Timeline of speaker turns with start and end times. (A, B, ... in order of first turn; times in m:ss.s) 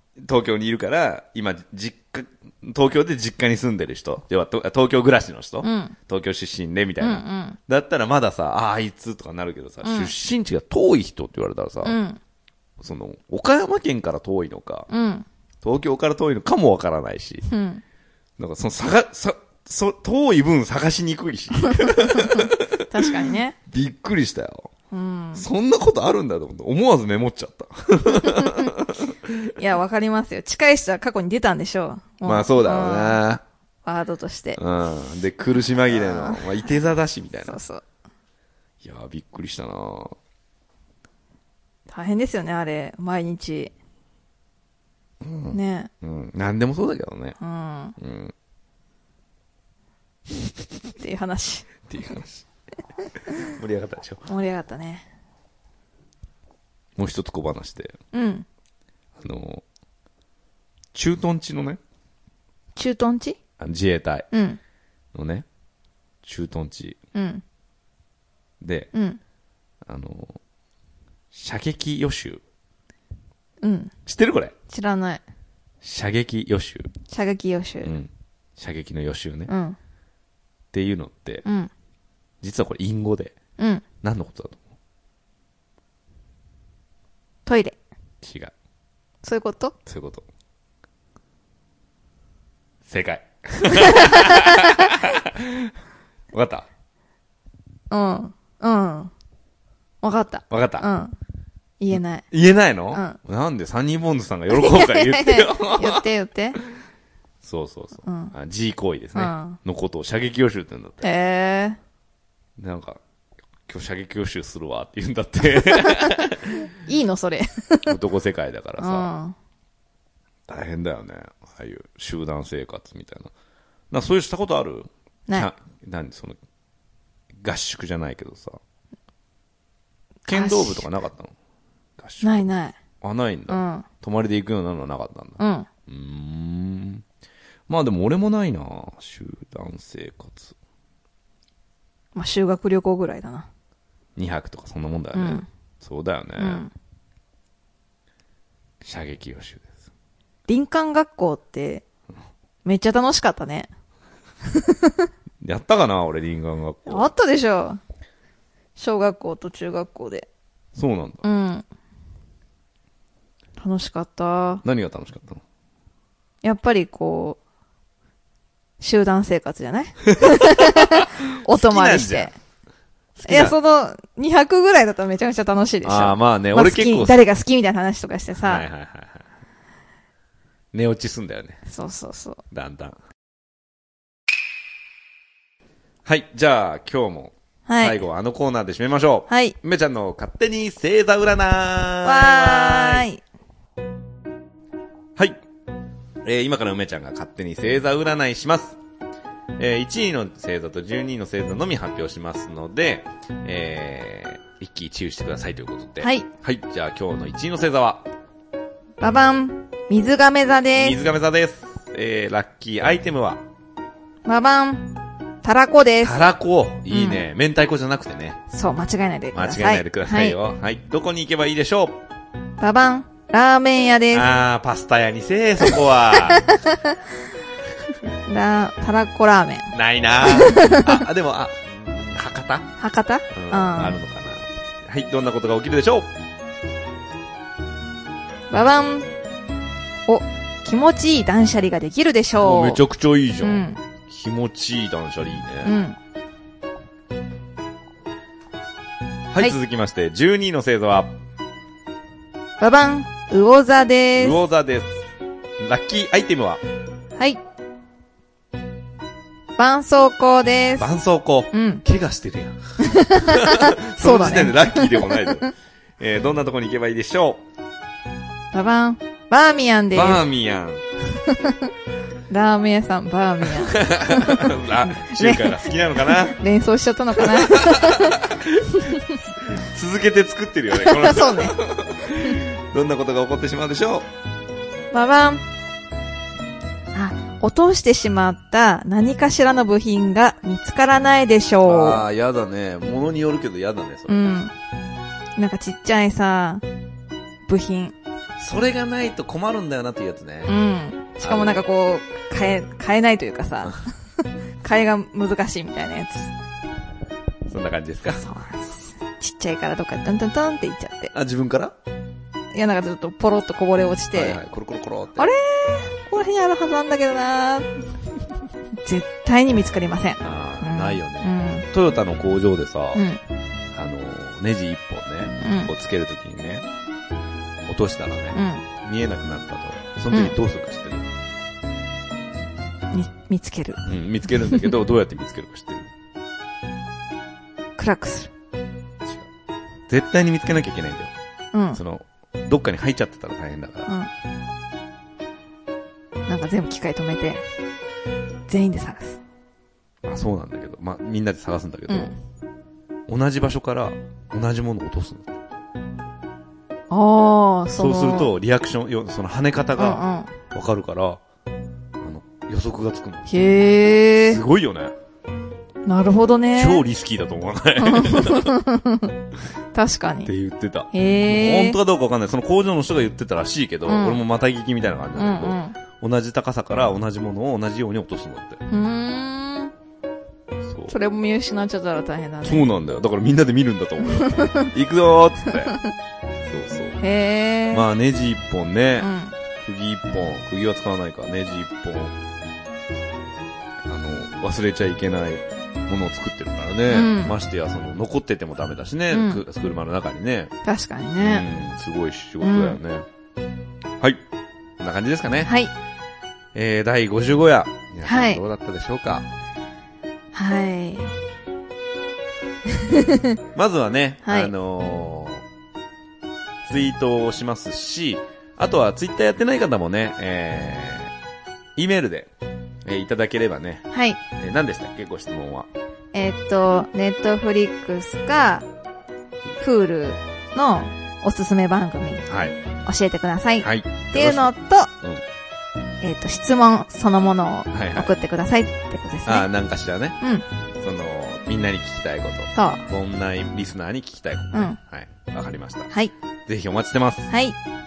0:00.2-0:12.0 A
0:05.6-0:05.9 B
0:07.0-0:07.6 B
0:09.8-0:10.1 B
0:11.8-0:12.2 B
0:12.8-0:14.9 A
0:14.9-0:15.2 B
0:15.6-0:17.4 A
0:17.5-0:17.8 B
0:18.4-0:24.7 A
0:21.6-0:23.6 B
0:24.9-0:25.4 B
0:25.4-0:29.5 A
0:28.1-0:28.7 B
0:29.6-0:33.2 B
0:32.2-0:33.4 A
0:33.8-0:34.6 B
0:34.6-0:37.6 A
0:35.8-0:36.7 B
0:37.4-0:37.8 B
0:38.8-0:40.1 A
0:41.9-0:43.7 B
0:45.2-0:47.4 A
0:45.5-0:45.9 B
0:47.4-0:48.0 B
0:48.0-0:48.3 A
0:51.0-0:51.7 B
0:51.9-0:52.5 A
0:53.3-0:54.2 A
0:54.3-0:55.0 B
0:57.0-0:58.0 A
0:58.1-0:58.4 B
0:59.2-0:59.6 A
1:00.9-1:01.8 A
1:02.7-1:03.4 B
1:03.6-1:04.3 A
1:04.3-1:04.6 B
1:05.1-1:05.4 A
1:06.2-1:07.0 A
1:07.1-1:07.4 B
1:08.6-1:08.9 A
1:08.9-1:09.2 B
1:09.8-1:10.4 A
1:11.3-1:12.4 A
1:13.6-1:13.9 B
1:14.0-1:14.5 A
1:14.7-1:15.2 B
1:15.8-1:16.9 A
1:17.1-1:17.9 B
1:17.8-1:19.5 A
1:19.5-1:19.8 B
1:20.7-1:21.4 A
1:21.4-1:21.7 B
1:22.4-1:23.3 A
1:23.6-1:23.8 B
1:24.0-1:24.6 A
1:27.4-1:27.8 B
1:28.2-1:28.5 A
1:29.2-1:29.8 B
1:29.8-1:30.2 A
1:32.9-1:35.7 A
1:33.7-1:34.9 B
1:36.3-1:36.7 A
1:37.9-1:39.1 B
1:40.0-1:41.1 B
1:40.5-1:40.9 A
1:41.8-1:42.2 B
1:42.3-1:46.0 A
1:42.9-1:43.2 B
1:44.5-1:46.6 B
1:47.4-1:51.1 A
1:48.0-1:48.3 B
1:49.1-1:49.6 B
1:51.0-1:51.8 B
1:52.6-1:53.0 A
1:53.7-1:56.7 A
1:55.7-1:58.0 B
1:57.8-1:59.1 A
1:58.8-1:59.4 B
2:00.5-2:03.3 A
2:03.9-2:06.4 A
2:07.4-2:08.6 A
2:10.2-2:10.9 B
2:10.3-2:11.3 A
2:12.0-2:12.4 A
2:12.2-2:12.8 B
2:13.0-2:17.0 A
2:13.5-2:13.9 B
2:15.4-2:15.7 B
2:17.7-2:20.5 A
2:22.1-2:23.5 B
2:24.2-2:26.6 A
2:25.1-2:25.5 B
2:26.4-2:26.7 B
2:28.8-2:29.7 A
2:30.5-2:31.8 B
2:32.6-2:33.7 B
2:34.4-2:35.1 B
2:35.4-2:37.1 A
2:36.9-2:37.8 B
2:38.8-2:40.3 B
2:40.7-2:41.2 A
2:41.2-2:41.6 B
2:43.6-2:44.6 B
2:44.6-2:45.4 A
2:46.4-2:47.4 B
2:48.8-2:52.3 B
2:50.0-2:52.3 A
2:53.2-2:53.6 A
2:53.3-2:58.7 B
2:55.8-2:57.2 A
2:58.4-2:59.2 A
3:00.7-3:01.6 A
3:01.6-3:02.4 B
3:02.5-3:03.0 A
3:06.0-3:13.1 A
3:07.7-3:08.0 B
3:09.3-3:09.6 B
3:12.0-3:13.2 B
3:16.2-3:18.8 A
3:19.6-3:28.0 A
3:26.0-3:26.3 B
3:29.0-3:31.0 B
3:30.7-3:33.4 A
3:34.2-3:36.2 B
3:36.0-3:38.4 A
3:36.9-3:37.2 B
3:38.5-3:40.4 B
3:39.3-3:42.0 A
3:42.6-3:44.2 B
3:44.1-3:46.6 A
3:45.6-3:47.0 B
3:48.2-3:51.0 B
3:49.7-3:52.7 A
3:52.8-3:54.0 B
3:53.3-3:56.1 A
3:58.5-3:59.1 B
4:00.0-4:02.8 B
4:02.4-4:05.7 A
4:03.4-4:03.8 B
4:05.6-4:06.0 B
4:09.3-4:11.1 A
4:12.6-4:14.4 B
4:14.2-4:15.0 A
4:15.6-4:16.6 A
4:19.6-4:20.9 B
4:20.8-4:25.5 A
4:21.5-4:21.8 B
4:22.8-4:25.5 B
4:26.0-4:27.4 A
4:28.5-4:30.2 B
4:29.9-4:30.8 A
4:31.2-4:31.7 B
4:32.3-4:38.2 B
4:33.6-4:36.4 A
4:37.2-4:44.1 A
4:40.7-4:41.6 B
4:44.9-4:45.4 B
4:46.9-4:52.0 B
4:51.6-4:54.3 A
4:54.1-4:54.5 B
4:55.4-4:56.6 B
4:57.5-4:57.9 B
4:58.4-5:00.5 A
5:00.5-5:03.8 B
5:01.2-5:01.6 A
5:04.6-5:06.3 B
5:07.5-5:08.3 A
5:08.2-5:11.1 B
5:11.1-5:11.7 A
5:12.5-5:14.4 B
5:14.1-5:15.3 A
5:15.2-5:17.7 B
5:18.8-5:21.6 B
5:20.2-5:23.0 A
5:22.9-5:23.2 B
5:23.7-5:26.6 A
5:25.4-5:25.7 B
5:27.7-5:31.1 A
5:28.3-5:28.6 B
5:32.9-5:33.8 B
5:33.8-5:35.9 A
5:34.4-5:34.7 B
5:37.8-5:38.3 B
5:39.9-5:41.1 A
5:41.5-5:41.8 B
5:41.7-5:43.9 A
5:46.3-5:47.4 B
5:48.5-5:49.2 B
5:50.0-5:52.1 A
5:51.9-5:52.1 B
5:53.1-5:55.4 A
5:56.9-5:58.3 B
5:57.8-6:01.2 A
5:59.8-6:00.3 B
6:02.0-6:04.9 A
6:03.3-6:04.4 B
6:05.8-6:06.8 B
6:06.6-6:08.6 A
6:07.8-6:09.1 B
6:09.7-6:10.3 B
6:10.2-6:18.6 A
6:10.9-6:11.8 B
6:13.9-6:14.2 B
6:15.2-6:15.8 B
6:18.7-6:19.7 B
6:20.6-6:20.9 A
6:20.9-6:22.7 B
6:22.4-6:25.8 A
6:24.0-6:24.7 B
6:25.6-6:25.9 B
6:26.4-6:27.0 A
6:27.0-6:27.8 B
6:27.7-6:29.1 A
6:29.0-6:29.3 B
6:29.6-6:32.1 A
6:33.8-6:40.5 A
6:36.9-6:37.3 B
6:39.1-6:39.4 B
6:40.6-6:41.4 B
6:41.2-6:43.0 A
6:42.4-6:42.8 B
6:44.8-6:45.5 A
6:45.4-6:45.7 B
6:46.5-6:49.3 A
6:48.0-6:48.4 B
6:50.3-6:51.2 B
6:52.7-6:53.4 B
6:53.5-6:55.4 A
6:54.2-6:54.5 B
6:56.6-7:01.1 A
7:01.8-7:02.3 A
7:02.8-7:05.7 A
7:03.9-7:04.2 B
7:06.1-7:08.6 B
7:09.6-7:12.3 B
7:12.3-7:12.6 A
7:12.8-7:14.9 B
7:13.6-7:15.2 A
7:16.0-7:19.5 B
7:17.7-7:18.2 A
7:19.2-7:20.2 A
7:20.8-7:25.9 A
7:22.5-7:22.8 B
7:26.5-7:27.3 A
7:27.3-7:27.6 B